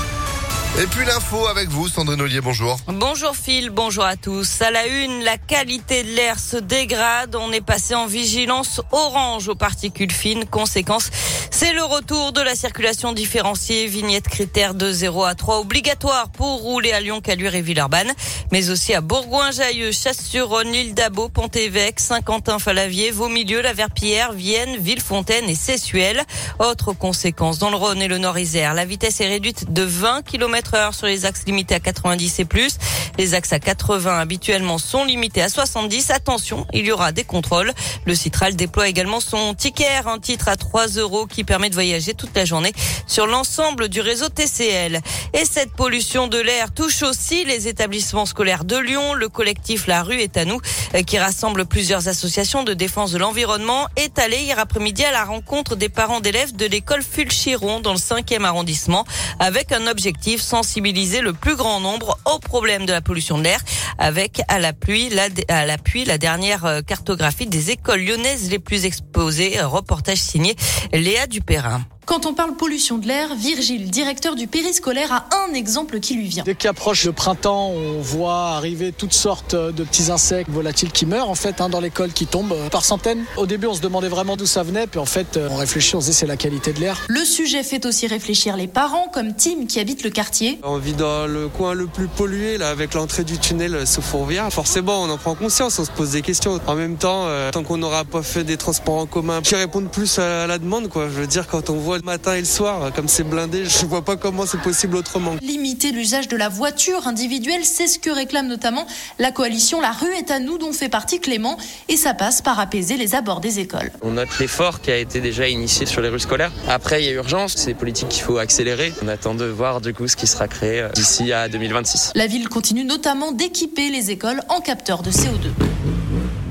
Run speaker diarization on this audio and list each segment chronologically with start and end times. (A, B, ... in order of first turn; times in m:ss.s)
0:00.8-0:02.8 A
0:02.9-1:11.8 B
1:12.1-1:16.5 C
1:16.4-1:27.0 D
1:27.1-1:30.6 C
1:30.6-1:45.4 E
1:45.4-1:54.0 C
1:54.0-2:02.1 F
2:02.1-2:05.6 C